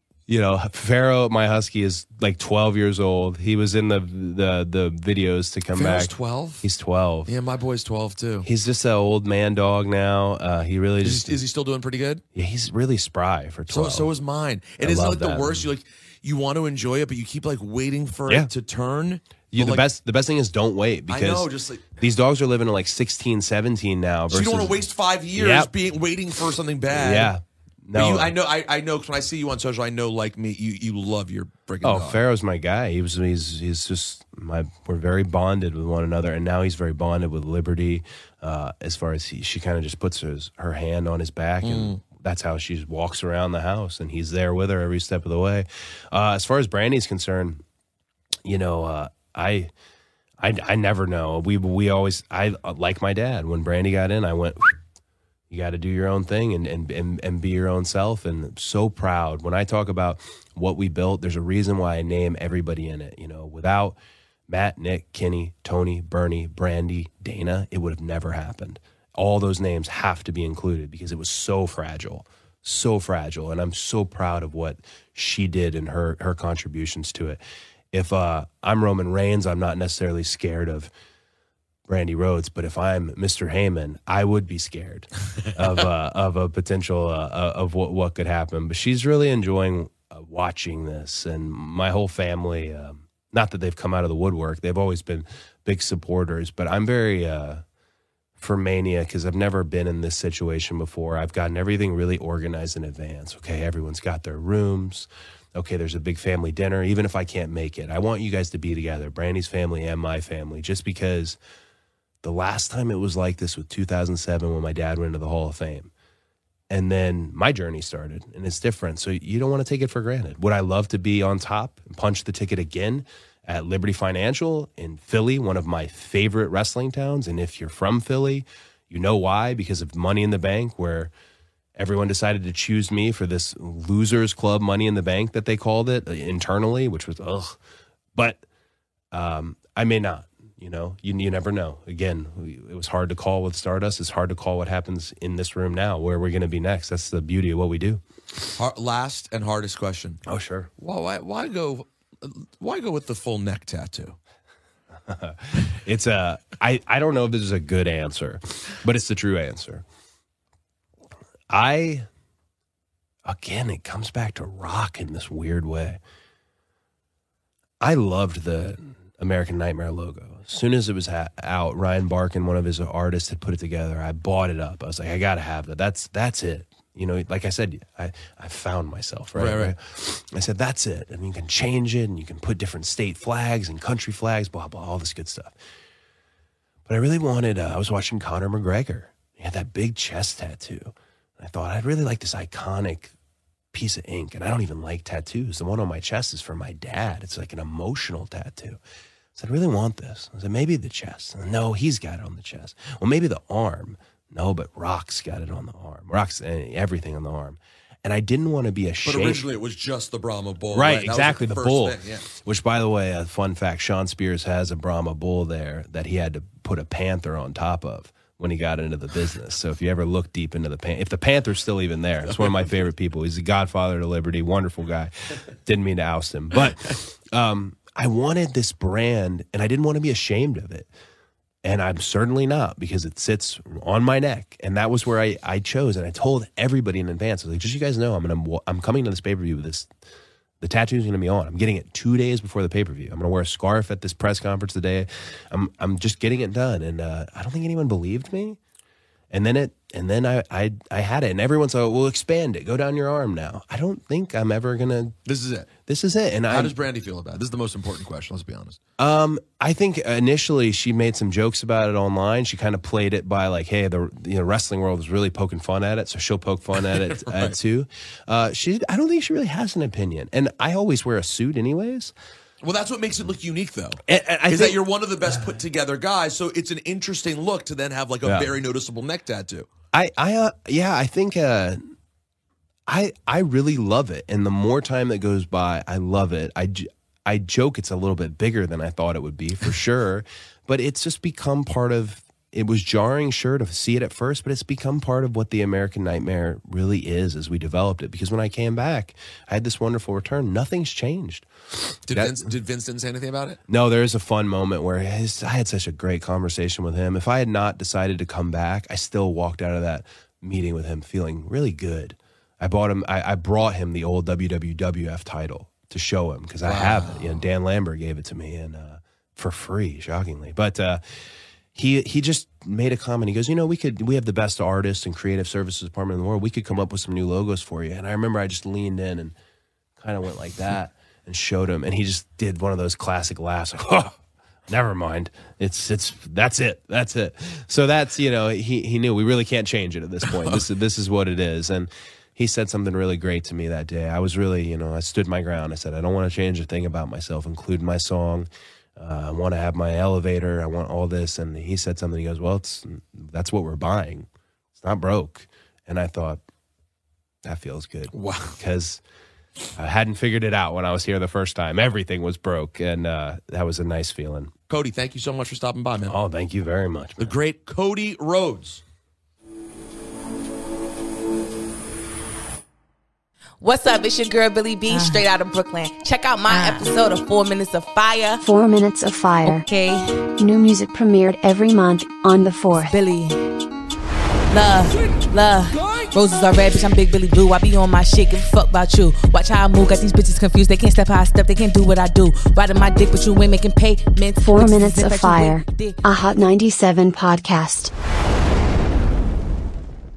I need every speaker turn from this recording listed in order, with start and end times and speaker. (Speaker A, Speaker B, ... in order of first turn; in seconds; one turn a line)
Speaker A: 0.3-7.3
Speaker B: 5.7-6.7
Speaker B: 7.3-8.5
Speaker A: 8.4-11.4
Speaker B: 11.0-12.2
Speaker A: 12.3-14.1
Speaker B: 13.7-19.9
Speaker A: 14.8-15.7
Speaker A: 19.5-24.8
Speaker B: 21.1-22.0
Speaker B: 24.3-27.3
Speaker A: 25.4-25.7
Speaker A: 26.9-28.3
Speaker B: 27.9-32.2
Speaker A: 31.8-47.6
Speaker B: 41.6-42.0
Speaker A: 48.5-49.7
Speaker A: 50.4-54.8
Speaker A: 55.5-77.4
Speaker A: 77.9-80.9
Speaker A: 81.9-97.6
Speaker A: 98.4-111.4
Speaker A: 112.2-115.9
Speaker A: 116.7-131.1
Speaker A: 131.8-137.6
Speaker A: 138.2-138.4
Speaker A: 139.1-148.0
Speaker B: 148.6-150.2
Speaker A: 150.3-150.7
Speaker B: 150.8-154.2
Speaker A: 155.1-159.8
Speaker A: 161.5-162.1
Speaker A: 163.2-166.0
Speaker A: 167.8-185.6
Speaker B: 179.3-179.7
Speaker A: 186.9-193.1
Speaker A: 193.7-198.8
Speaker A: 199.3-209.5
Speaker B: 209.0-212.3
Speaker A: 210.7-230.9
Speaker B: 222.3-222.6
Speaker A: 231.6-239.9
Speaker A: 240.6-248.6
Speaker A: 249.3-255.2
Speaker B: 255.3-255.7
Speaker A: 255.9-256.8
Speaker B: 256.5-258.8
Speaker A: 259.0-272.1
Speaker B: 266.9-267.6
Speaker B: 272.6-279.7
Speaker A: 274.1-274.8
Speaker A: 278.2-278.5
Speaker A: 279.9-281.8
Speaker A: 282.9-302.4
Speaker B: 302.1-303.6
Speaker A: 303.7-321.0
Speaker B: 316.6-317.4
Speaker A: 321.7-329.4
Speaker A: 330.0-356.4
Speaker A: 357.4-359.0
Speaker B: 358.1-358.6
Speaker A: 359.8-364.5
Speaker B: 364.7-366.2
Speaker A: 366.1-367.3
Speaker B: 367.2-368.8
Speaker C: 373.6-378.4
Speaker D: 378.4-379.6
Speaker C: 379.4-380.3
Speaker D: 380.4-382.9
Speaker C: 382.7-383.4
Speaker C: 384.5-396.0
Speaker D: 394.4-397.9